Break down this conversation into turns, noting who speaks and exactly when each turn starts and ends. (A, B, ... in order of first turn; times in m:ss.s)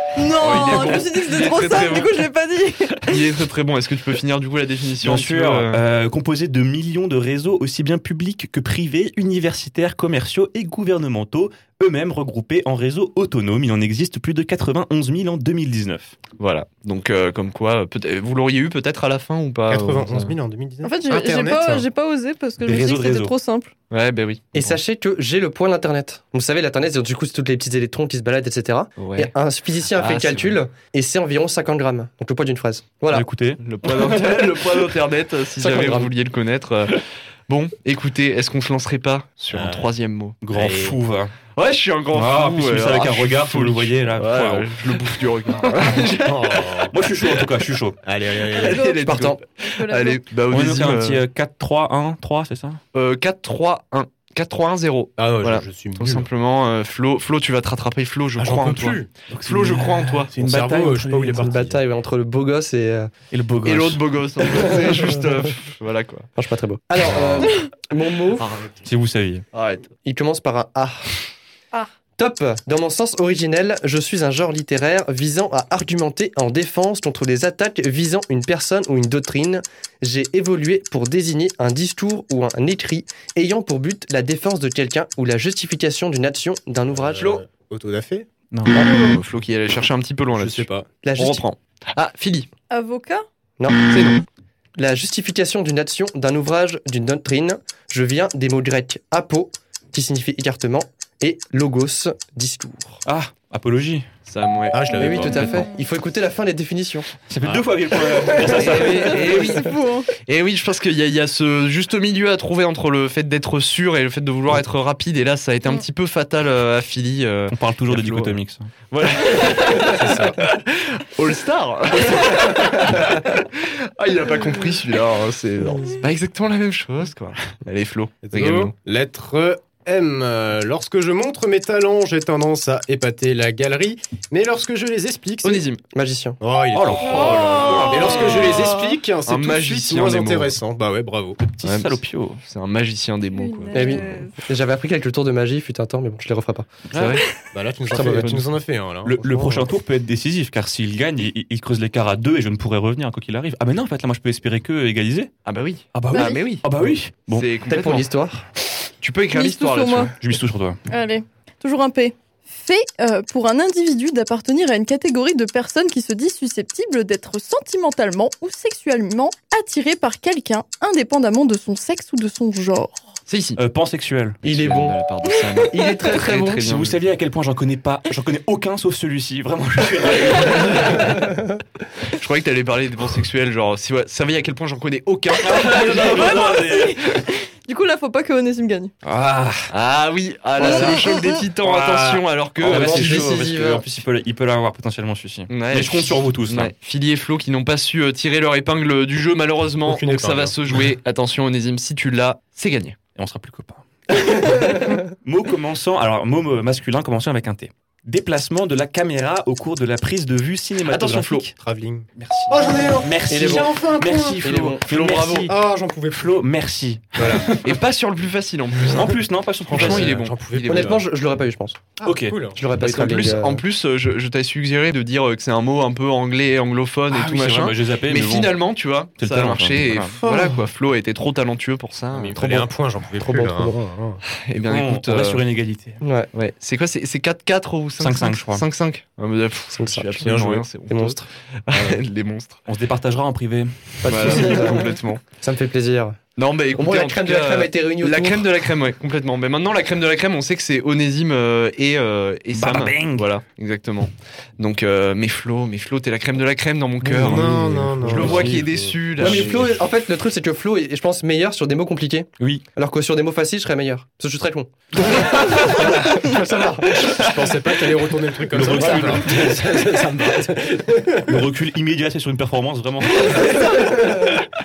0:00.1-0:03.2 A
0:00.4-0:02.2 B
0:03.0-0:05.8 B
0:05.0-0:16.1 C
0:16.4-0:20.3 B
0:19.7-0:21.8 D
0:20.8-0:23.7 A
0:22.6-0:23.3 C
0:23.9-0:24.4 B
0:24.5-0:33.3 E
0:29.0-0:29.3 B
0:30.0-0:30.4 B
0:33.1-0:34.4 C
0:33.6-0:40.4 B
0:35.6-0:36.1 E
0:39.5-0:39.9 D
0:40.4-0:41.3 C
0:40.5-0:41.0 D
0:41.5-0:47.4 B
0:42.1-0:44.7 C
0:46.1-0:47.0 D
0:46.9-0:48.0 C
0:48.0-0:48.9 D
0:48.5-0:51.2 B
0:48.6-0:50.2 A
0:49.0-0:49.4 E
0:50.5-0:52.8 C
0:52.9-1:00.3 B
0:55.2-0:56.3 D
0:58.4-0:59.3 D
0:59.4-1:01.6 C
1:00.3-1:01.8 D
1:01.4-1:03.1 E
1:03.3-1:04.0 C
1:03.6-1:06.3 B
1:06.4-1:08.5 E
1:08.4-1:08.8 B
1:08.8-1:09.4 C
1:09.5-1:09.9 B
1:10.0-1:11.1 E
1:12.2-1:27.4 E
1:26.9-1:28.3 D
1:28.5-1:28.9 C
1:28.7-1:32.5 B
1:30.3-1:30.9 D
1:31.0-1:31.4 E
1:32.7-1:33.2 A
1:33.6-1:33.9 E
1:33.8-1:34.2 B
1:34.8-1:43.0 E
1:43.0-1:44.1 C
1:44.3-1:45.4 B
1:44.7-1:45.6 D
1:44.9-1:47.1 E
1:45.4-1:45.7 A
1:47.3-1:49.6 C
1:47.4-1:47.7 D
1:48.4-1:58.4 B
1:48.8-1:50.1 A
1:57.5-1:58.7 C
1:58.9-2:08.7 B
1:59.9-2:00.4 D
2:08.2-2:15.6 D
2:15.4-2:15.8 B
2:15.9-2:16.4 E
2:16.4-2:21.9 D
2:16.7-2:18.0 C
2:17.0-2:18.9 A
2:17.7-2:18.5 B
2:19.2-2:20.5 B
2:21.6-2:24.2 B
2:23.3-2:24.4 A
2:23.7-2:26.7 E
2:26.9-2:27.2 C
2:26.9-2:27.2 B
2:27.5-2:29.5 D
2:27.9-2:28.4 E
2:29.0-2:35.3 C
2:29.3-2:29.6 E
2:35.4-2:36.6 B
2:35.9-2:37.5 C
2:36.1-2:36.4 A
2:37.3-2:38.0 B
2:37.7-2:38.4 E
2:39.0-2:40.1 B
2:39.3-2:40.1 A
2:40.2-2:40.8 C
2:40.9-2:53.0 A
2:53.3-2:53.6 B
2:53.6-2:54.4 C
2:54.4-2:57.0 B
2:54.4-2:55.0 E
2:55.7-2:56.6 E
2:56.1-3:01.3 C
3:02.1-3:05.8 B
3:05.4-3:07.2 C
3:05.8-3:08.9 A
3:09.0-3:09.7 C
3:09.7-3:13.3 B
3:10.6-3:11.4 A
3:10.6-3:16.7 C
3:12.6-3:13.8 E
3:15.5-3:23.0 B
3:19.8-3:20.8 D
3:23.1-3:31.5 C
3:30.8-3:31.5 B
3:31.5-3:34.5 D
3:32.2-3:35.6 C
3:33.2-3:33.7 E
3:34.4-3:34.9 E
3:34.8-3:35.5 B
3:35.4-3:36.4 D
3:36.1-3:37.6 C
3:37.2-3:37.4 D
3:37.6-3:41.0 B
3:38.9-3:40.2 C
3:39.7-3:41.1 D
3:40.6-3:41.8 E
3:42.0-3:42.7 D
3:42.0-3:42.4 C
3:42.5-3:43.6 E
3:42.8-3:52.7 B
3:47.1-3:48.6 C
3:49.2-3:50.2 C
3:50.2-3:50.6 D
3:52.1-3:54.2 D
3:53.2-3:53.8 E
3:54.4-3:55.4 B
3:54.6-3:56.0 C
3:56.0-3:56.3 E
3:56.3-4:02.6 B
3:58.0-3:58.6 C
3:59.7-4:00.3 E
4:00.1-4:00.6 D
4:00.8-4:01.2 E
4:02.7-4:04.8 C
4:04.0-4:06.2 E
4:04.1-4:05.2 B
4:06.4-4:17.5 B
4:06.7-4:08.5 E
4:12.5-4:13.3 C
4:17.0-4:19.6 D
4:17.1-4:18.6 C
4:18.0-4:19.6 B
4:19.1-4:28.0 E
4:19.2-4:19.7 C
4:22.4-4:22.6 C
4:27.1-4:31.4 D
4:28.5-4:29.8 C
4:28.7-4:29.3 E
4:31.2-4:33.7 C
4:33.7-4:34.1 B